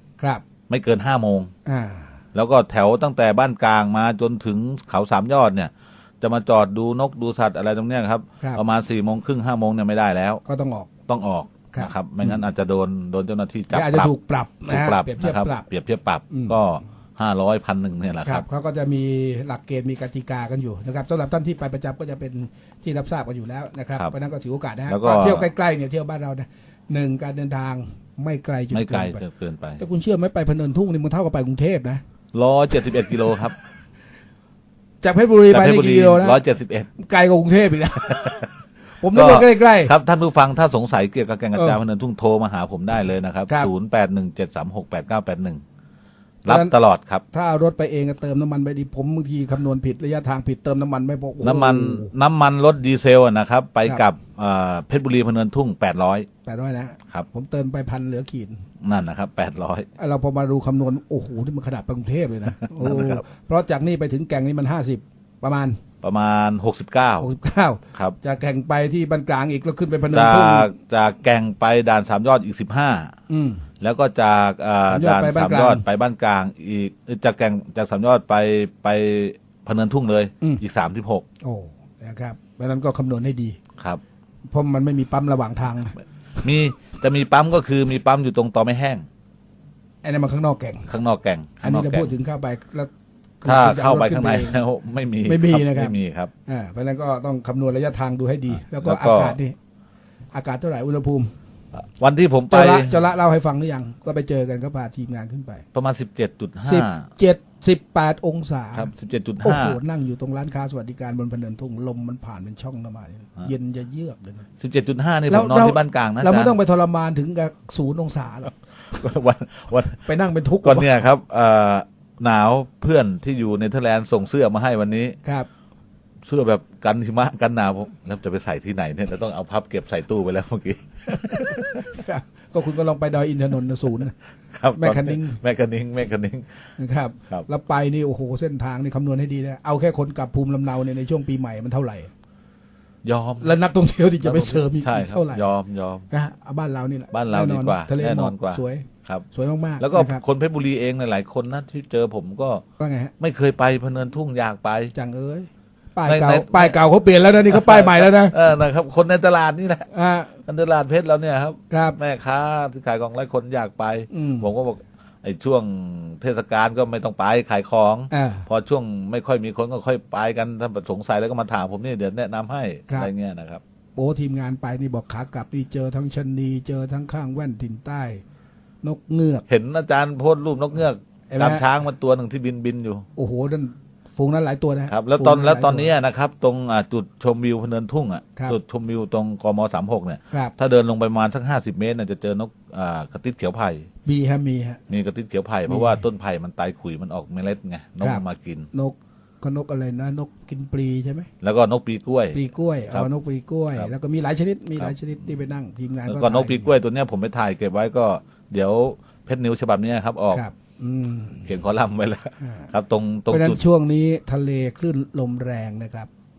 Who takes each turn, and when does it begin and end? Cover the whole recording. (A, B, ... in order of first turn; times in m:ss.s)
0:00.2-0:00.4 A
0:00.7-0:01.5 B
0:01.6-0:02.1 A
0:02.3-0:10.4 B
0:10.4-0:10.9 A
0:11.1-0:14.1 B
0:11.7-0:12.4 A
0:13.7-0:15.6 A
0:14.7-0:18.4 B
0:16.3-0:16.6 A
0:18.2-0:29.2 A
0:24.9-0:25.5 B
0:28.7-0:29.8 B
0:29.8-0:32.0 A
0:32.3-0:33.6 B
0:32.8-0:33.3 A
0:35.0-0:36.4 A
0:35.5-0:36.9 B
0:37.0-0:38.4 A
0:38.2-0:38.4 B
0:39.0-0:39.9 A
0:39.1-0:45.6 B
0:41.5-0:41.8 A
0:46.4-0:46.7 A
0:46.4-0:47.2 B
0:47.3-0:52.1 A
0:51.4-0:56.3 B
0:56.4-0:58.6 A
0:58.8-0:59.9 B
1:00.0-1:05.8 A
1:02.5-1:03.2 B
1:06.0-1:07.3 B
1:07.2-1:10.7 A
1:10.1-1:13.1 B
1:13.3-1:13.6 A
1:13.8-1:21.2 B
1:14.9-1:15.8 A
1:21.4-1:23.6 A
1:24.5-1:25.9 A
1:26.4-1:29.0 B
1:30.0-1:30.9 A
1:30.9-1:32.1 B
1:31.6-1:34.6 A
1:33.4-1:36.3 B
1:35.2-1:35.9 A
1:36.4-1:39.6 A
1:38.6-1:39.4 B
1:40.3-1:41.3 A
1:41.8-1:43.0 B
1:42.5-1:45.6 A
1:45.7-1:47.1 B
1:46.6-1:48.9 A
1:48.7-1:49.8 B
1:49.4-1:54.4 A
1:54.6-1:56.6 B
1:55.3-1:58.6 A
1:58.9-2:00.1 B
2:00.0-2:00.9 A
2:00.6-2:05.2 B
2:05.2-2:05.5 A
2:06.2-2:11.8 B
2:11.1-2:14.1 A
2:14.5-2:16.6 B
2:14.8-2:15.4 A
2:16.8-2:22.1 A
2:23.0-2:23.5 B
2:23.4-2:25.4 A
2:24.2-2:26.0 B
2:26.1-2:30.2 A
2:27.1-2:29.2 B
2:29.8-2:32.6 B
2:32.8-2:33.1 A
2:33.2-2:34.9 B
2:34.9-2:38.4 A
2:36.0-2:36.8 B
2:37.5-2:39.9 B
2:39.9-2:40.3 A
2:40.4-2:53.6 B
2:41.7-2:42.0 A
2:44.1-2:44.5 A
2:48.1-2:48.5 A
2:54.0-2:58.2 A
2:58.8-2:59.4 A
2:59.5-3:03.0 B
3:01.3-3:01.6 A
3:03.2-3:05.9 A
3:04.9-3:13.9 B
3:14.0-3:14.8 A
3:14.9-3:18.7 B
3:15.7-3:16.0 A
3:18.0-3:21.3 A
3:21.4-3:22.4 B
3:22.3-3:26.7 A
3:26.1-3:30.4 B
3:30.3-3:31.5 A
3:31.4-3:33.6 B
3:32.4-3:32.7 A
3:33.3-3:36.1 A